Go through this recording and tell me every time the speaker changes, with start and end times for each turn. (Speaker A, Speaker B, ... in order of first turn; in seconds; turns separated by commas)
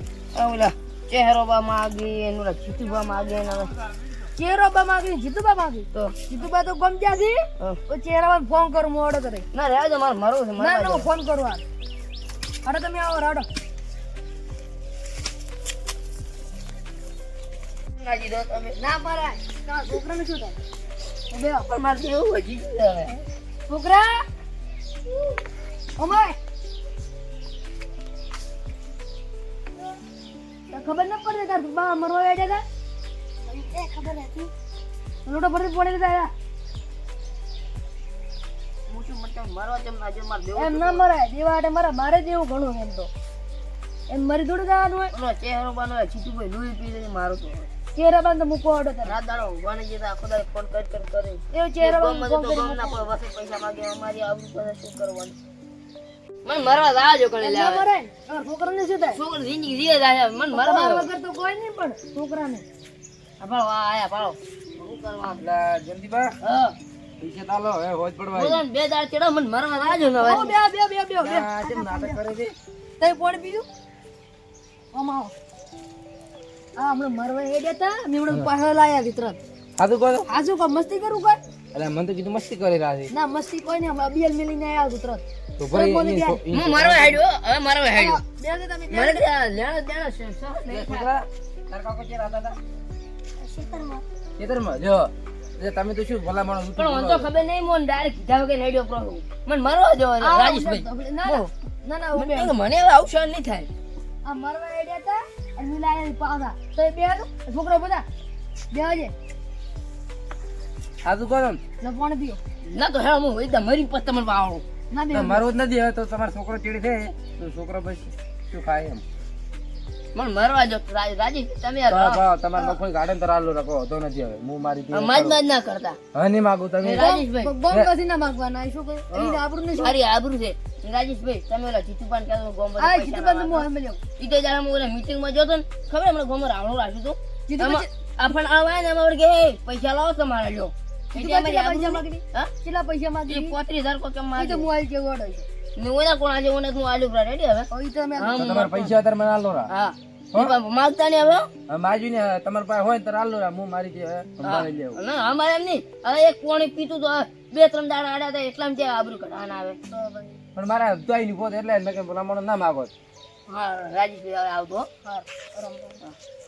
Speaker A: 0.3-3.7, Speaker B: 4.3-9.4, Speaker A: 9.5-11.1, Speaker B: 10.6-11.6, Speaker B: 12.6-13.5, Speaker A: 18.0-18.8, Speaker B: 18.8-20.6, Speaker B: 21.3-21.7, Speaker A: 21.7-23.2, Speaker B: 23.7-24.2, Speaker B: 26.0-26.4, Speaker B: 30.7-32.6, Speaker B: 33.5-34.5, Speaker B: 35.2-36.3, Speaker A: 38.9-41.0, Speaker B: 40.5-43.1, Speaker B: 44.1-45.1, Speaker A: 45.1-47.7, Speaker B: 47.9-49.1, Speaker A: 49.0-55.4, Speaker B: 51.5-53.0, Speaker A: 56.4-57.8, Speaker B: 57.4-59.2, Speaker A: 59.1-61.0, Speaker B: 60.5-62.6, Speaker A: 63.4-65.4, Speaker C: 65.4-66.3, Speaker A: 66.4-66.8, Speaker C: 67.2-68.6, Speaker A: 68.3-70.5, Speaker B: 70.2-72.2, Speaker C: 71.2-72.5, Speaker B: 73.0-73.7, Speaker B: 74.9-75.3, Speaker B: 76.8-79.4, Speaker C: 79.8-80.3, Speaker B: 80.2-81.4, Speaker C: 81.7-83.1, Speaker B: 83.1-86.4, Speaker C: 85.6-87.2, Speaker A: 86.5-88.2, Speaker B: 87.9-89.2, Speaker A: 88.9-91.2, Speaker C: 90.7-92.6, Speaker B: 93.4-94.0, Speaker C: 94.4-97.2, Speaker A: 96.8-101.5, Speaker B: 100.2-102.5, Speaker A: 102.1-103.7, Speaker B: 104.2-108.0, Speaker B: 108.7-109.1, Speaker C: 111.0-111.6, Speaker B: 111.8-112.4, Speaker A: 112.6-114.6, Speaker B: 114.9-115.4, Speaker C: 115.1-119.0, Speaker A: 120.1-122.2, Speaker C: 121.9-125.4, Speaker A: 124.9-126.0, Speaker C: 126.1-127.0, Speaker A: 126.8-127.5, Speaker B: 126.9-130.0, Speaker A: 129.1-133.7, Speaker B: 132.8-134.0, Speaker A: 134.2-142.5, Speaker B: 137.5-137.9, Speaker B: 141.1-143.5, Speaker A: 143.3-144.7, Speaker B: 144.4-145.4, Speaker A: 145.8-148.9, Speaker B: 147.7-148.5, Speaker C: 148.3-149.7, Speaker A: 149.7-151.5, Speaker C: 151.7-155.0, Speaker A: 154.4-159.8, Speaker B: 159.9-160.4, Speaker C: 160.6-162.9, Speaker A: 163.5-164.9, Speaker B: 165.0-166.0